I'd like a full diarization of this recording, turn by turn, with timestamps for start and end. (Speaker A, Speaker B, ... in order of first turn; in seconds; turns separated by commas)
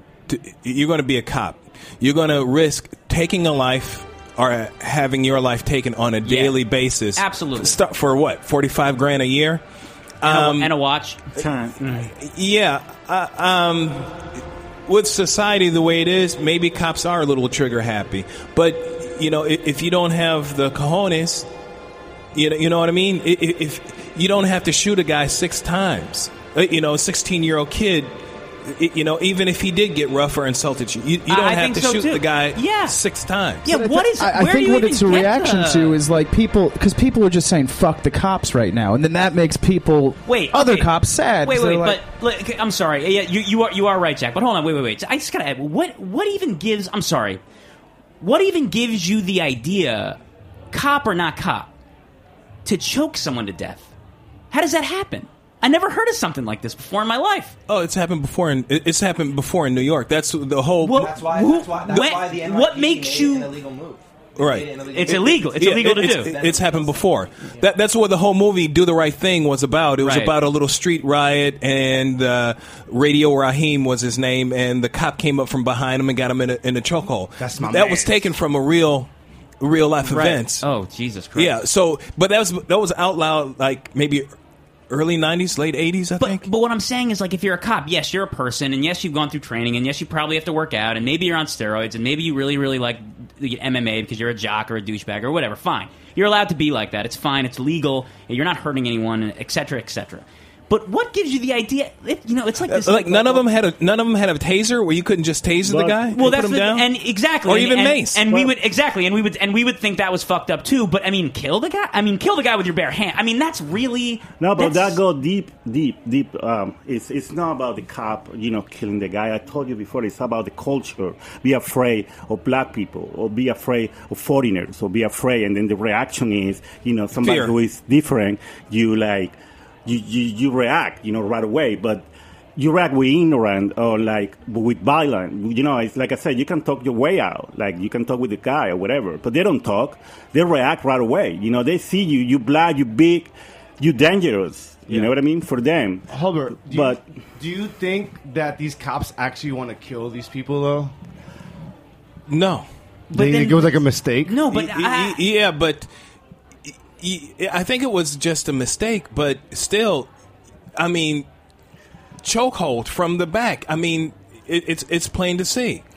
Speaker A: 0.3-9.6, Speaker B: 6.2-6.6, Speaker B: 7.2-7.8, Speaker A: 10.2-10.7, Speaker B: 10.2-11.2, Speaker C: 11.4-11.7, Speaker B: 11.8-12.1, Speaker A: 12.1-14.1, Speaker A: 14.9-21.5, Speaker A: 22.3-28.1, Speaker A: 28.6-33.7, Speaker B: 31.3-33.0, Speaker B: 33.6-36.0, Speaker D: 33.7-42.0, Speaker B: 40.3-40.9, Speaker B: 41.4-47.4, Speaker B: 48.2-50.2, Speaker B: 50.7-51.7, Speaker B: 52.6-53.9, Speaker B: 54.5-57.5, Speaker A: 57.7-61.2, Speaker B: 60.8-63.5, Speaker E: 61.0-67.1, Speaker A: 64.4-80.6, Speaker B: 64.9-66.3, Speaker B: 70.0-70.3, Speaker F: 77.4-78.3, Speaker B: 80.0-81.6, Speaker A: 81.3-84.3, Speaker A: 84.9-86.5, Speaker B: 86.2-103.4, Speaker A: 102.7-106.9, Speaker C: 105.6-106.1, Speaker B: 106.1-115.0, Speaker A: 107.5-108.2, Speaker C: 108.3-108.5, Speaker C: 114.4-129.3, Speaker A: 127.2-127.5, Speaker C: 129.9-146.1, Speaker F: 146.1-150.9, Speaker C: 146.7-147.0, Speaker A: 152.3-152.7, Speaker F: 153.1-154.4, Speaker B: 153.1-155.2, Speaker A: 154.5-155.9, Speaker A: 156.7-160.1, Speaker A: 160.8-161.3, Speaker A: 162.2-165.8